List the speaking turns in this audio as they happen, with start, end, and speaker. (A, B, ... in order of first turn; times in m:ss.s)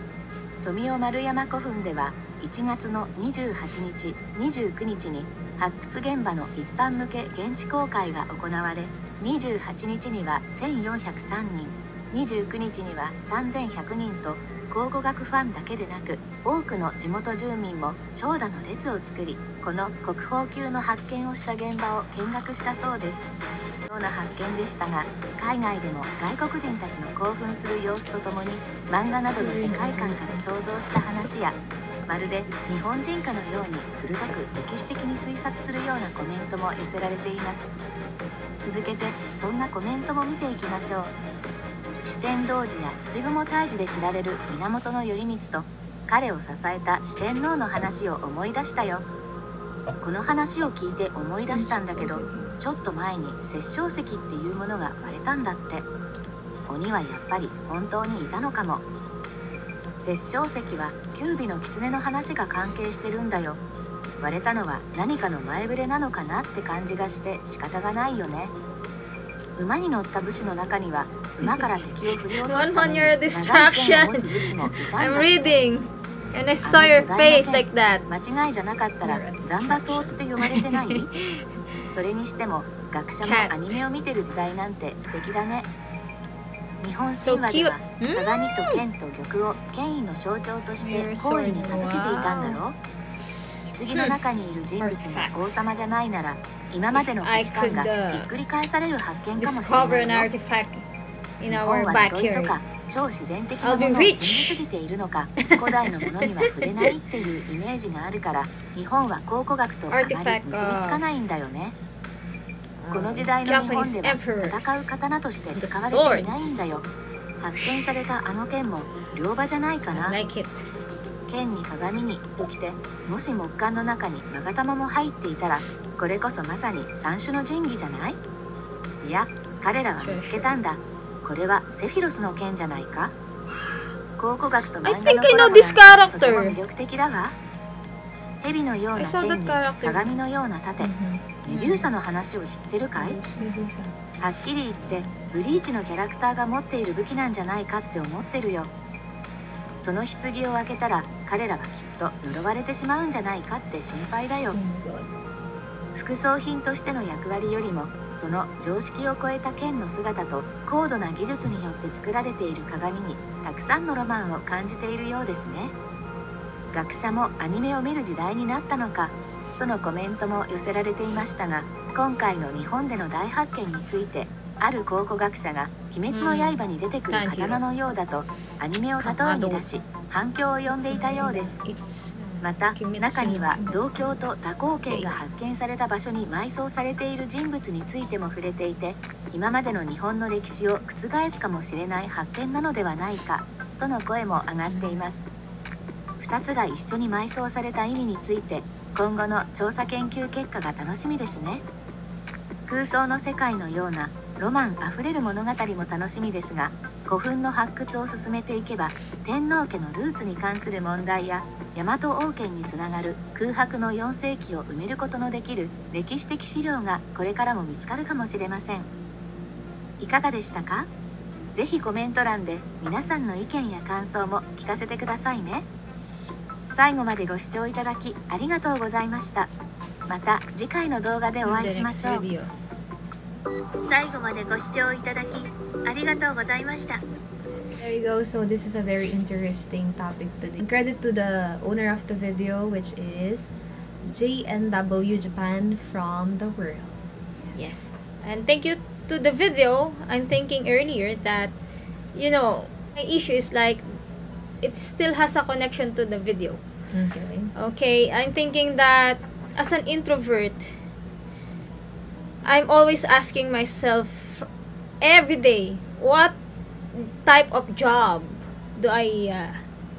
0:00.6-0:23.3 A
0:23.9-0:37.7 A
0:29.4-0:30.7 B
0:38.6-0:41.1 A
0:42.0-0:49.0 A
0:50.0-0:55.8 A
0:51.5-0:52.5 C
0:56.7-0:58.8 A
1:00.0-1:03.6 A
1:04.2-1:08.5 A
1:09.6-1:15.5 A
1:12.0-1:18.0 C
1:16.6-1:21.1 A
1:19.0-1:20.2 B
1:20.4-1:21.4 C
1:21.9-1:25.7 A
1:23.2-1:23.8 C
1:26.8-1:32.8 A
1:27.2-1:28.8 C
1:30.8-1:32.6 C
1:33.6-1:40.3 A
1:34.8-1:35.7 C
1:36.9-1:38.3 C
1:39.4-1:40.8 C
1:41.4-1:42.6 C
1:41.5-1:51.8 A
1:43.6-1:44.6 C
1:45.5-1:46.9 C
1:49.9-1:51.0 C
1:52.8-1:56.7 C
1:52.9-1:56.9 A
1:57.4-2:00.2 A
1:59.9-2:00.7 C
2:01.3-2:08.2 A
2:09.0-2:13.1 A
2:09.7-2:10.6 C
2:14.2-2:17.4 A
2:14.8-2:16.6 C
2:18.4-2:20.9 A
2:18.9-2:20.1 C
2:20.8-2:21.7 B
2:21.4-2:23.2 A
2:21.5-2:21.8 C
2:23.0-2:24.0 B
2:23.2-2:23.4 C
2:24.2-2:28.7 A
2:29.8-2:34.6 A
2:34.5-2:35.1 B
2:35.9-2:45.7 A
2:46.7-3:01.6 A
2:56.1-2:57.6 C
2:59.0-2:59.6 C
3:00.7-3:04.2 C
3:02.4-3:15.2 A
3:04.8-3:05.2 C
3:16.2-3:21.6 A
3:22.7-3:38.9 A
3:40.0-3:40.9 A
3:41.5-3:45.7 A
3:46.7-3:49.5 A
3:50.1-3:52.3 A
3:51.4-3:52.5 C
3:53.9-3:57.0 A
3:57.8-4:03.5 B
4:04.0-4:07.6 B
4:07.5-4:11.5 C
4:12.1-4:14.0 C
4:14.6-4:16.6 C
4:16.9-4:17.5 B
4:17.6-4:20.7 C
4:22.4-4:24.5 C
4:25.0-4:26.4 C
4:26.9-4:29.6 C